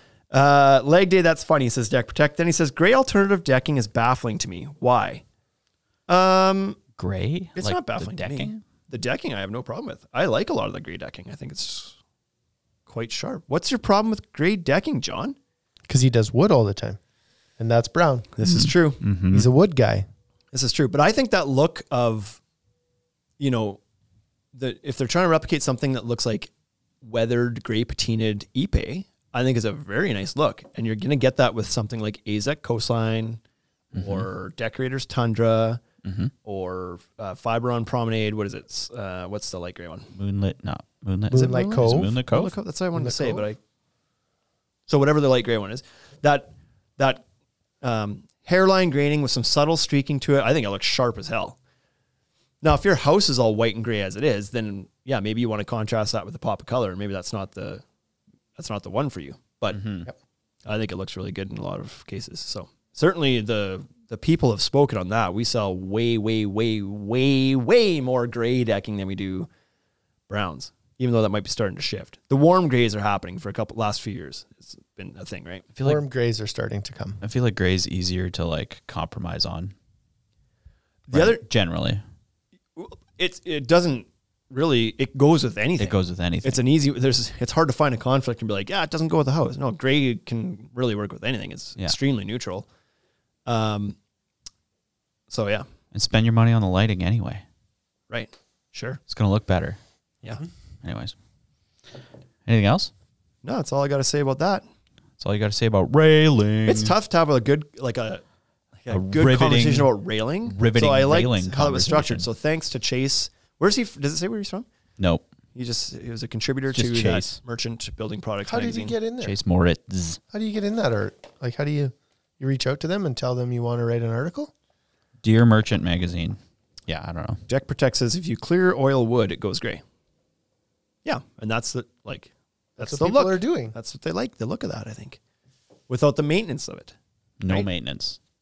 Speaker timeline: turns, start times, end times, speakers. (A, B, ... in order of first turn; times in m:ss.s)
0:00.3-0:05.2 A
0:06.1-0:06.8 A
0:07.0-0:08.6 B
0:07.6-0:11.9 A
0:12.9-0:15.3 A
0:15.9-0:17.0 C
0:17.6-0:18.3 C
0:18.4-0:19.0 A
0:18.4-0:19.5 B
0:19.3-0:20.0 C
0:20.5-0:22.4 A
0:23.4-0:23.8 A
0:24.5-0:26.5 A
0:27.0-0:33.4 A
0:33.9-0:35.8 A
0:33.9-0:34.3 B
0:36.0-0:36.3 B
0:36.4-0:40.1 A
0:40.2-0:42.5 B
0:41.3-0:42.1 C
0:41.4-0:43.6 A
0:42.9-0:43.5 C
0:44.9-0:47.2 A
0:47.8-0:51.6 A
0:52.6-0:57.8 A
0:58.6-0:59.8 A
0:59.7-1:00.1 B
1:00.6-1:09.5 A
1:10.3-1:15.7 A
1:15.8-1:16.0 B
1:15.8-1:17.2 C
1:17.2-1:19.7 B
1:21.1-1:21.4 A
1:21.1-1:22.0 B
1:22.8-1:32.6 A
1:25.8-1:26.6 B
1:33.4-1:34.0 A
1:35.3-1:35.6 A
1:35.9-1:37.4 B
1:38.1-1:39.0 A
1:39.1-1:39.8 B
1:40.8-1:41.1 B
1:42.5-1:42.9 B
1:43.4-1:44.6 A
1:45.2-1:46.9 B
1:46.6-1:48.2 A
1:48.8-1:54.6 A
1:48.9-1:49.9 B
1:50.4-1:52.3 B
1:55.0-1:55.2 B
1:55.5-1:59.0 A
1:56.7-1:57.4 B
1:58.4-1:59.4 C
1:59.2-2:00.2 B
2:00.3-2:04.5 C
2:05.2-2:07.4 B
2:07.5-2:09.8 A
2:11.0-2:15.2 A
2:12.8-2:13.7 C
2:15.9-2:16.9 A
2:17.4-2:18.2 B